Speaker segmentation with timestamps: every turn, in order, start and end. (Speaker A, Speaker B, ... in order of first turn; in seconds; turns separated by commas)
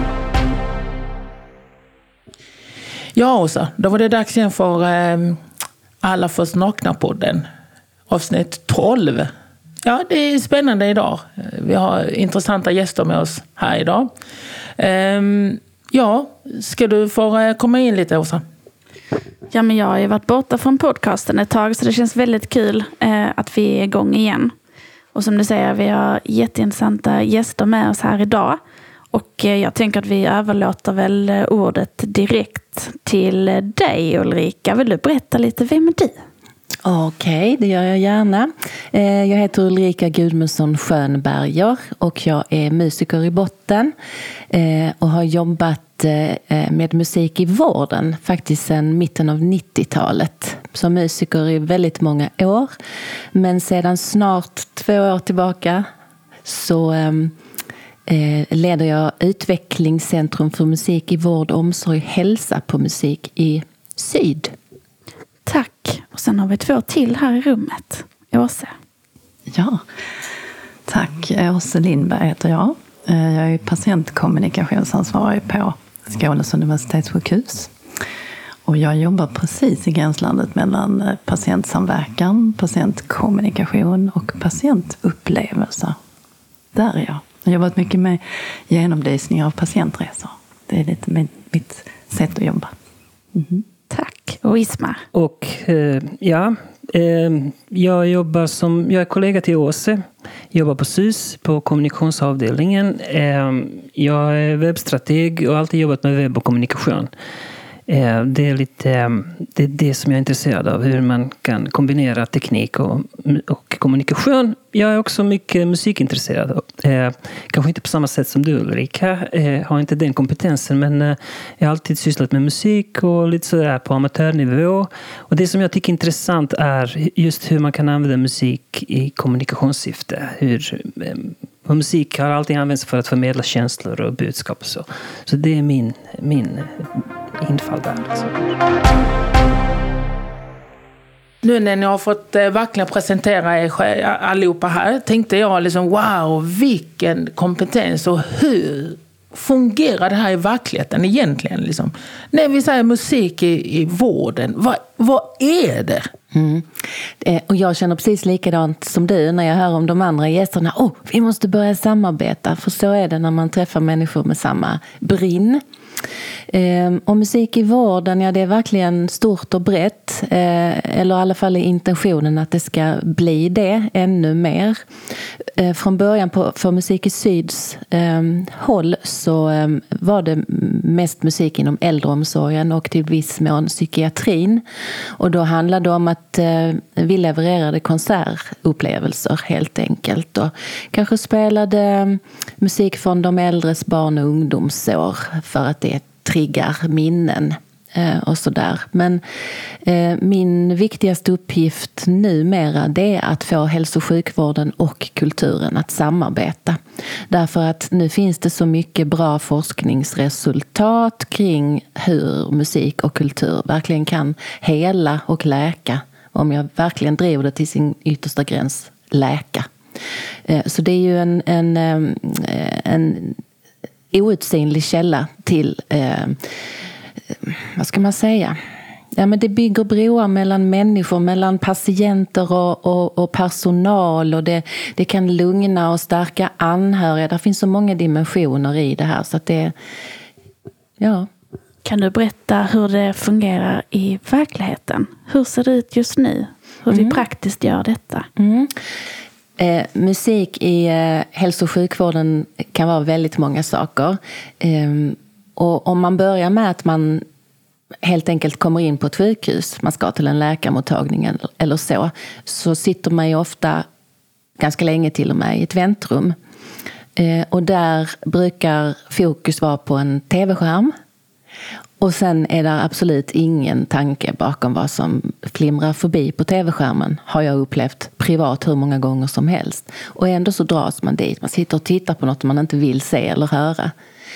Speaker A: 3.2-5.4, Speaker A: 6.0-7.5, Speaker A: 8.1-9.3, Speaker A: 9.8-14.1, Speaker A: 14.8-18.4, Speaker B: 19.5-24.5, Speaker B: 25.1-28.6, Speaker B: 29.1-36.2, Speaker C: 36.9-43.9, Speaker C: 44.5-52.7, Speaker C: 53.3-55.9, Speaker C: 56.5-57.4, Speaker C: 58.1-64.5, Speaker B: 65.5-68.7, Speaker D: 69.5-69.8, Speaker D: 70.9-77.7, Speaker D: 78.7-86.0, Speaker D: 86.7-92.7, Speaker D: 93.3-93.7, Speaker B: 93.9-95.0, Speaker E: 95.1-107.1, Speaker E: 107.9-138.6, Speaker A: 141.4-156.1, Speaker C: 156.3-165.6, Speaker C: 166.5-174.8, Speaker C: 175.6-184.6, Speaker C: 185.2-199.2, Speaker C: 199.8-219.7, Speaker C: 220.5-223.4, Speaker C: 224.1-226.4, Speaker C: 227.3-228.6, Speaker C: 229.2-239.7, Speaker C: 241.0-241.3, Speaker B: 241.8-248.3, Speaker C: 246.9-247.2, Speaker C: 248.4-248.8, Speaker C: 249.6-257.2, Speaker C: 258.0-263.9, Speaker C: 264.6-266.4, Speaker C: 267.2-270.9, Speaker C: 272.0-283.9